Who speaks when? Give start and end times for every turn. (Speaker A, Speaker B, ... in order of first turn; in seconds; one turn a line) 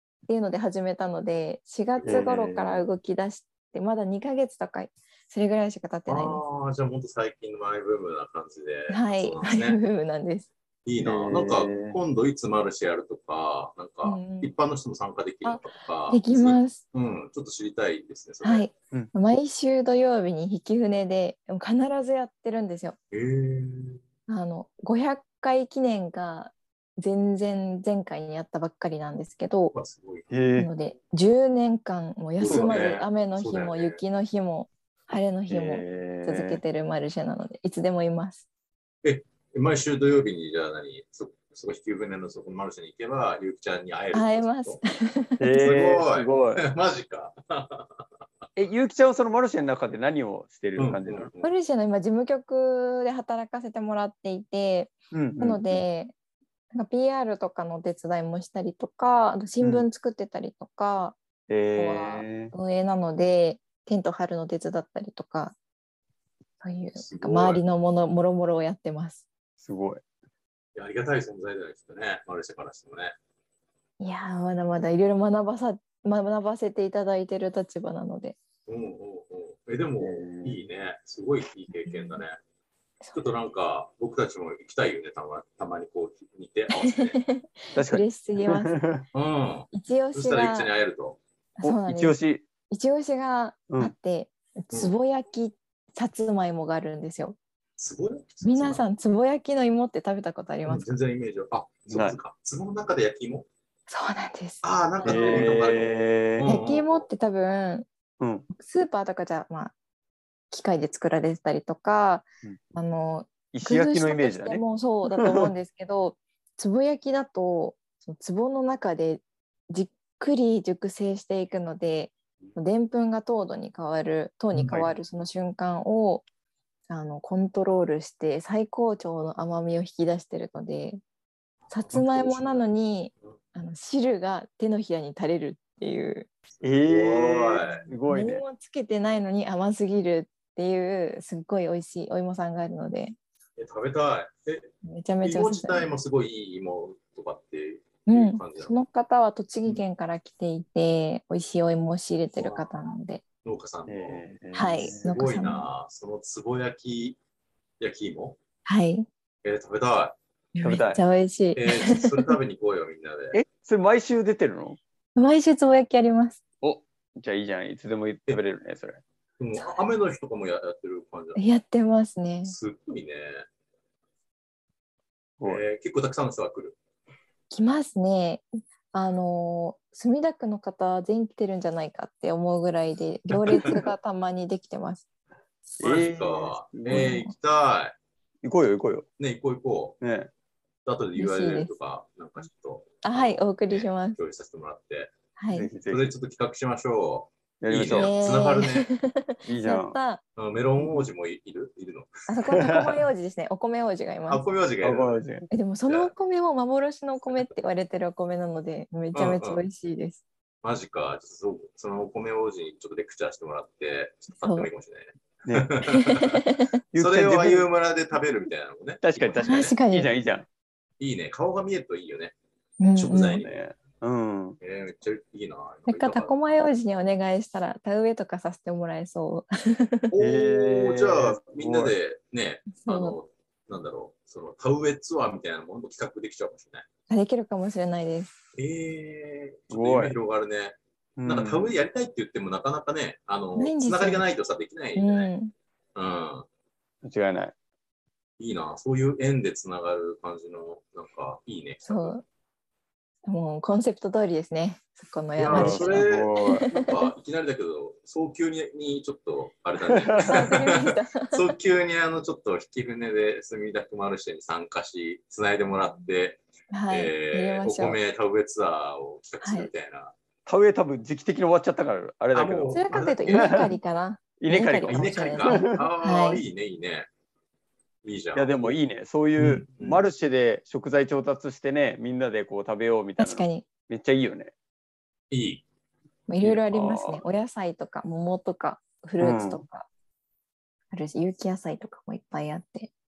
Speaker A: 0.3-6.4
Speaker B: 2.0-2.2
Speaker C: 2.0-2.9
Speaker B: 6.1-9.8
Speaker A: 8.9-10.5
Speaker B: 10.8-18.7
Speaker C: 11.0-12.0
Speaker A: 14.0-14.5
Speaker A: 15.4-16.8
Speaker A: 18.4-22.9
Speaker B: 23.1-24.0
Speaker A: 24.3-29.7
Speaker B: 29.7-30.3
Speaker C: 30.3-30.7
Speaker A: 30.6-38.4
Speaker B: 32.4-34.0
Speaker C: 32.5-32.9
Speaker C: 35.5-36.6
Speaker B: 39.0-44.8
Speaker A: 44.1-45.6
Speaker C: 45.4-46.6
Speaker B: 45.6-48.0
Speaker C: 48.5-51.3
Speaker B: 50.8-51.5
Speaker A: 51.4-56.1
Speaker C: 55.1-55.8
Speaker A: 56.7-61.2
Speaker C: 59.6-59.9
Speaker C: 61.5-62.5
Speaker A: 61.7-65.5
Speaker A: 66.6-69.2
Speaker B: 67.0-67.6
Speaker C: 69.6-70.0
Speaker B: 70.7-73.1
Speaker A: 74.0-78.4
Speaker B: 78.7-82.3
Speaker C: 80.0-80.7
Speaker A: 81.8-82.2
Speaker B: 83.1-87.2
Speaker A: 86.7-88.7
Speaker C: 87.8-89.0
Speaker B: 89.1-91.2
Speaker A: 89.7-90.7
Speaker A: 91.6-92.2
Speaker C: 91.6-92.4
Speaker A: 92.7-97.4
Speaker C: 93.7-93.9
Speaker B: 97.8-98.8
Speaker A: 98.4-100.8
Speaker B: 100.7-103.5
Speaker C: 101.9-102.2
Speaker A: 103.9-105.5
Speaker B: 104.6-107.0
Speaker C: 105.0-106.5
Speaker A: 106.4-107.9
Speaker C: 108.2-108.5
Speaker A: 108.5-109.7
Speaker A: 110.5-126.2
Speaker C: 113.5-114.6
Speaker C: 115.2-115.5
Speaker B: 124.5-124.9
Speaker A: 126.9-131.0
Speaker B: 131.7-132.6
Speaker A: 131.7-136.3
Speaker B: 136.6-137.8
Speaker C: 136.6-138.4
Speaker A: 137.7-143.2
Speaker B: 143.6-144.7
Speaker A: 144.8-145.9
Speaker B: 145.2-148.7
Speaker A: 148.1-153.2
Speaker B: 152.3-152.7
Speaker B: 153.4-157.2
Speaker C: 153.9-155.0
Speaker A: 154.5-155.7
Speaker B: 157.8-158.4
Speaker A: 158.6-159.1
Speaker B: 159.4-160.2
Speaker A: 160.5-162.4
Speaker C: 160.6-161.0
Speaker B: 161.6-163.4
Speaker C: 163.3-164.8
Speaker A: 165.2-166.4
Speaker C: 166.6-169.0
Speaker B: 169.4-171.4
Speaker A: 169.6-169.8
Speaker A: 171.3-172.6
Speaker B: 172.4-173.4
Speaker C: 175.4-175.6
Speaker B: 175.4-176.8
Speaker A: 177.5-185.0
Speaker B: 183.5-183.8
Speaker C: 185.8-187.1
Speaker B: 185.8-187.9
Speaker A: 186.9-187.3
Speaker C: 188.4-189.1
Speaker B: 189.2-190.0
Speaker C: 190.0-190.3
Speaker B: 190.8-195.1
Speaker A: 191.2-191.7
Speaker A: 193.0-194.2
Speaker A: 195.4-195.7
Speaker C: 195.5-196.1
Speaker B: 195.9-198.9
Speaker C: 197.6-198.2
Speaker A: 197.9-200.2
Speaker C: 199.4-199.9
Speaker B: 200.3-202.3
Speaker C: 200.8-201.1
Speaker A: 202.3-204.4
Speaker C: 202.5-203.0
Speaker B: 204.3-205.2
Speaker C: 204.8-205.5
Speaker A: 205.5-210.2
Speaker B: 209.1-209.6
Speaker B: 210.6-216.4
Speaker A: 214.4-214.7
Speaker A: 215.8-216.7
Speaker C: 216.9-217.7
Speaker B: 216.9-219.7
Speaker C: 219.0-220.5
Speaker A: 219.4-220.1
Speaker B: 221.0-222.3
Speaker A: 222.8-223.4
Speaker B: 222.9-223.5
Speaker C: 223.4-224.6
Speaker B: 224.6-226.4
Speaker A: 225.9-230.1
Speaker B: 230.1-236.8
Speaker C: 230.2-231.9
Speaker A: 232.8-233.2
Speaker A: 237.1-238.3
Speaker B: 238.6-245.3
Speaker C: 239.7-240.1
Speaker C: 241.2-241.7
Speaker A: 243.6-244.2
Speaker A: 244.9-245.5
Speaker B: 245.9-246.4
Speaker C: 247.0-247.5
Speaker B: 248.4-252.1
Speaker A: 251.8-252.2
Speaker A: 253.2-257.1
Speaker B: 255.4-270.1
Speaker C: 255.5-256.7
Speaker C: 259.9-260.4
Speaker A: 260.2-261.5
Speaker A: 266.7-268.0
Speaker A: 269.4-269.7
Speaker C: 270.4-273.7
Speaker B: 272.3-273.7
Speaker A: 272.7-276.4
Speaker C: 274.4-275.9
Speaker B: 274.9-277.1
Speaker B: 278.0-278.5
Speaker C: 278.4-284.5
Speaker B: 279.4-280.0
Speaker A: 283.2-283.6
Speaker B: 285.3-285.6
Speaker A: 286.3-289.9
Speaker C: 286.4-287.2
Speaker C: 289.2-289.6
Speaker A: 290.9-292.9